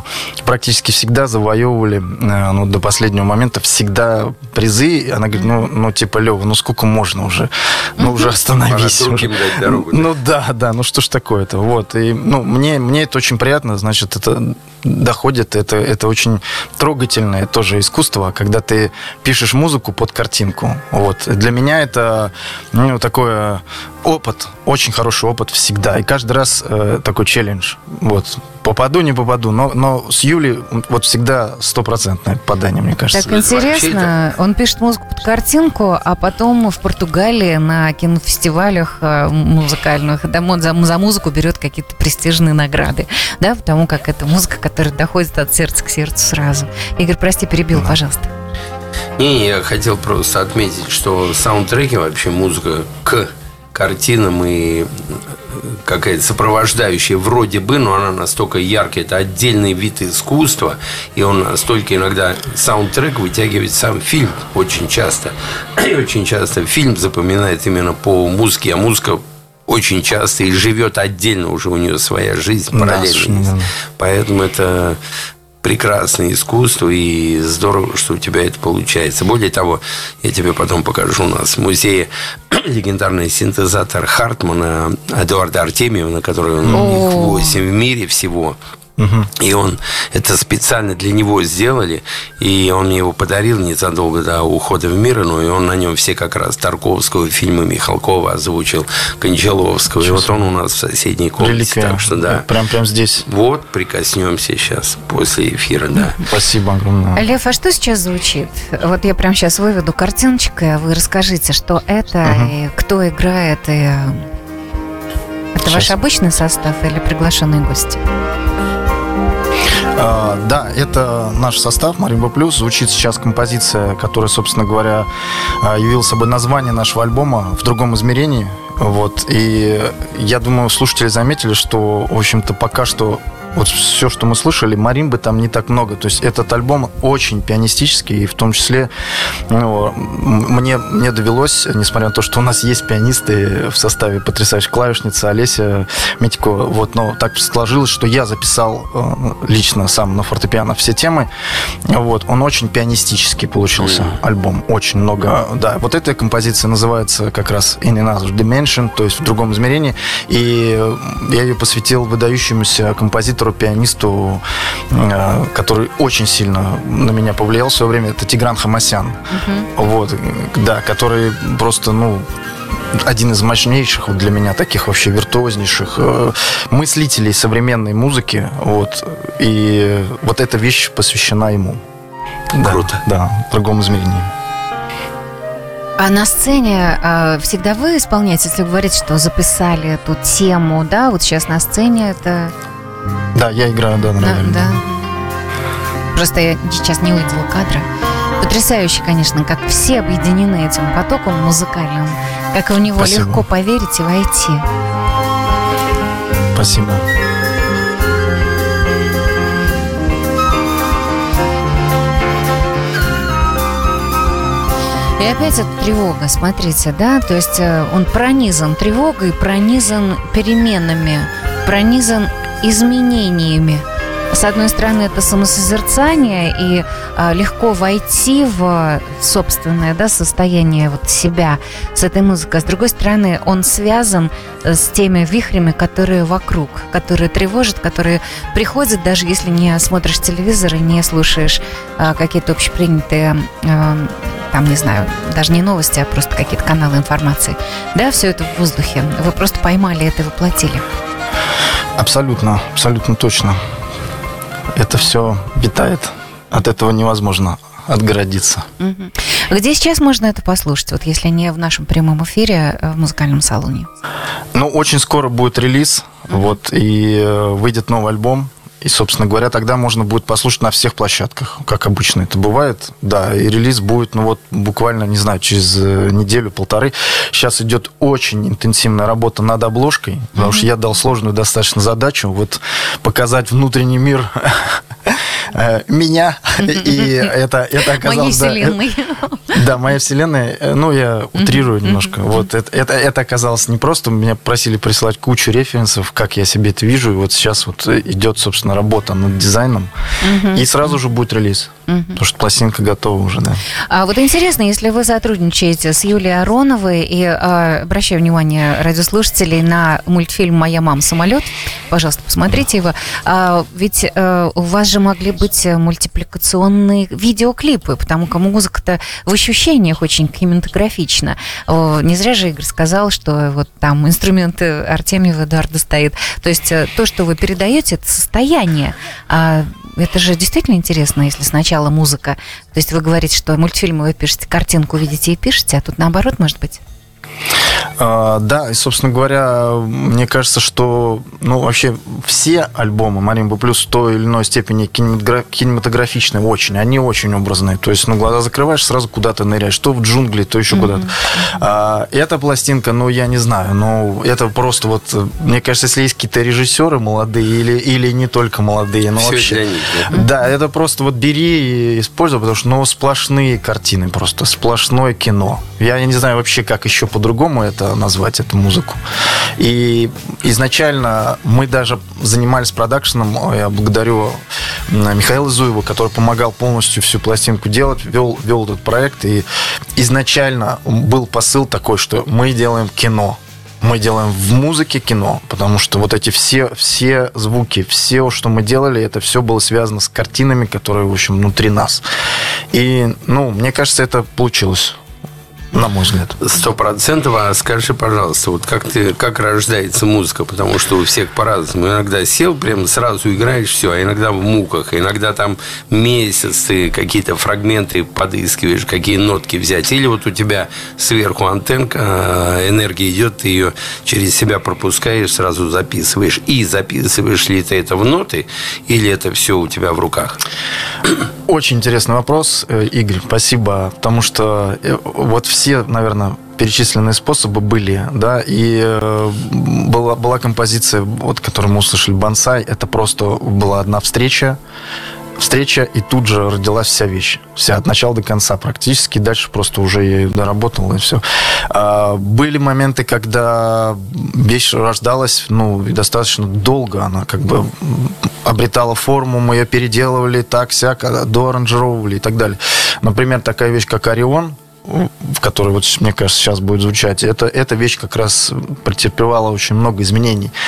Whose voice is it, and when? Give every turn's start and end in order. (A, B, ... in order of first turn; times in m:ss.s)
0:00.4-0:33.3 A
0:08.0-0:08.2 B
0:08.6-0:10.1 C
0:33.1-0:48.3 B
0:33.2-0:34.1 C
0:49.2-1:15.0 C
1:12.7-1:13.7 A
1:15.6-1:28.6 C
1:26.6-1:27.0 A
1:26.7-1:27.6 B
1:29.0-1:29.3 A
1:29.4-1:42.5 C
1:40.0-1:40.4 A
1:41.4-1:43.2 A
1:43.2-1:46.2 C
1:46.2-1:47.2 A
1:47.1-1:54.2 B
1:52.2-1:52.5 A
1:55.5-1:58.0 B
1:55.6-1:55.9 A
1:59.9-2:05.1 A
2:05.6-2:18.9 A
2:19.5-2:31.3 A
2:31.9-2:49.2 A
2:33.8-2:34.2 C
2:49.3-2:49.7 B
2:49.8-2:52.3 A
2:52.9-3:01.8 A
3:02.5-3:04.3 A
3:02.6-3:03.0 C
3:06.0-3:12.5 B
3:13.3-3:14.8 A
3:14.2-3:15.2 B
3:16.1-3:17.8 B
3:18.4-3:24.6 B
3:23.0-3:23.4 A
3:26.5-3:27.0 A
3:35.2-4:10.8 B
4:12.0-4:13.6 A
4:14.7-4:18.7 A
4:18.8-4:23.9 B
4:24.5-4:48.8 A
4:40.4-4:40.7 B
4:46.6-4:47.3 B
4:47.8-4:49.6 B
4:49.5-4:59.9 A
4:51.4-4:52.4 B
5:00.2-5:00.8 B
5:00.5-5:03.6 A
5:01.9-5:02.2 B
5:03.8-5:36.8 B
5:38.0-6:09.0 A
5:50.7-5:51.5 B
5:59.2-6:00.1 C
6:09.6-6:32.0 A
6:32.7-6:35.0 A
6:35.7-6:36.4 A
6:36.4-7:00.4 C
7:01.5-7:14.6 A
7:15.4-7:40.5 A